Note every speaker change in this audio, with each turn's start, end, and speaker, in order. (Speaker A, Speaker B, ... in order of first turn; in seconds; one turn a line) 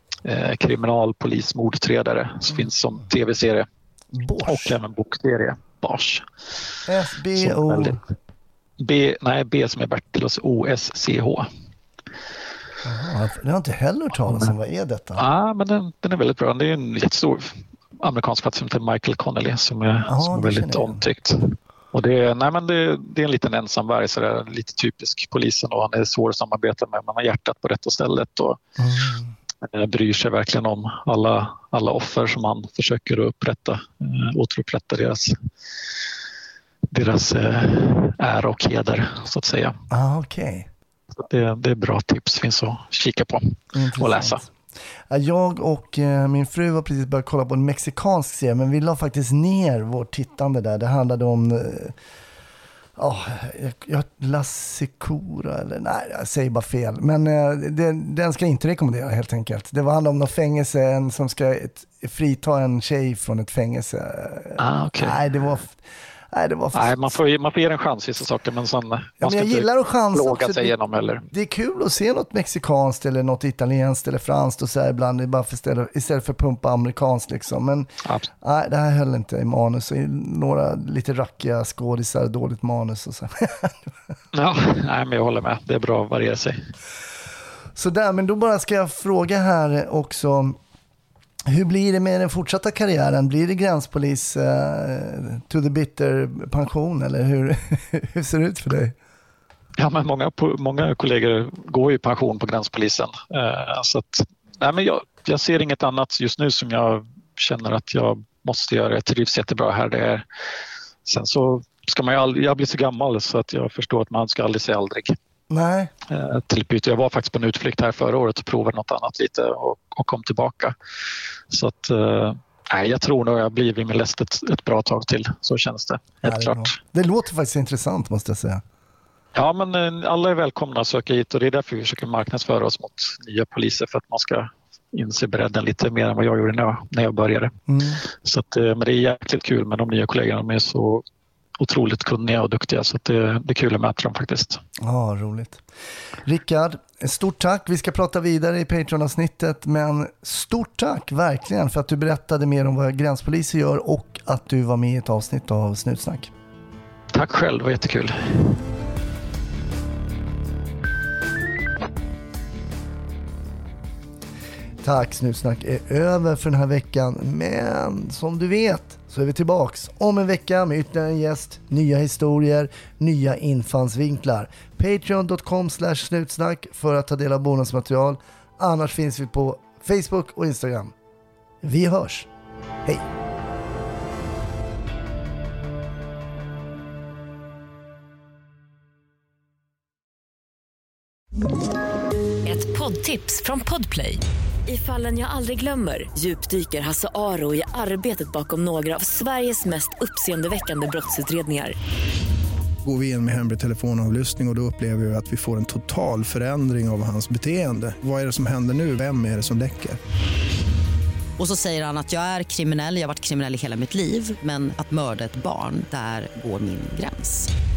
Speaker A: 0.2-3.7
Speaker B: 4.1-4.8
Speaker A: 4.5-6.3
Speaker B: 6.9-8.0
Speaker A: 7.3-8.0
Speaker A: 8.8-11.5
Speaker B: 12.8-15.2
Speaker A: 15.2-28.6
Speaker B: 20.1-21.0
Speaker B: 28.8-29.3
Speaker A: 29.6-35.4
Speaker A: 36.9-39.8
Speaker B: 39.9-40.7
Speaker A: 41.1-44.4
Speaker B: 43.7-44.5
Speaker B: 45.1-52.0
Speaker B: 53.0-67.1
Speaker A: 64.6-65.2
Speaker A: 66.7-71.3
Speaker B: 69.2-70.7
Speaker B: 71.3-77.9
Speaker B: 78.4-83.9
Speaker A: 84.3-86.7
Speaker B: 87.8-90.6
Speaker B: 91.5-99.0
Speaker A: 99.8-110.2
Speaker A: 111.0-115.2
Speaker B: 115.5-115.9
Speaker A: 116.1-120.8
Speaker A: 121.5-126.8
Speaker B: 126.2-128.6
Speaker A: 129.3-141.0
Speaker B: 137.7-138.0
Speaker A: 141.6-144.6
Speaker B: 144.8-145.6
Speaker B: 146.2-156.3
Speaker A: 157.1-158.6
Speaker B: 164.8-180.9
Speaker B: 181.6-182.3
Speaker C: 192.4-201.8
Speaker D: 202.8-210.0
Speaker E: 211.4-217.5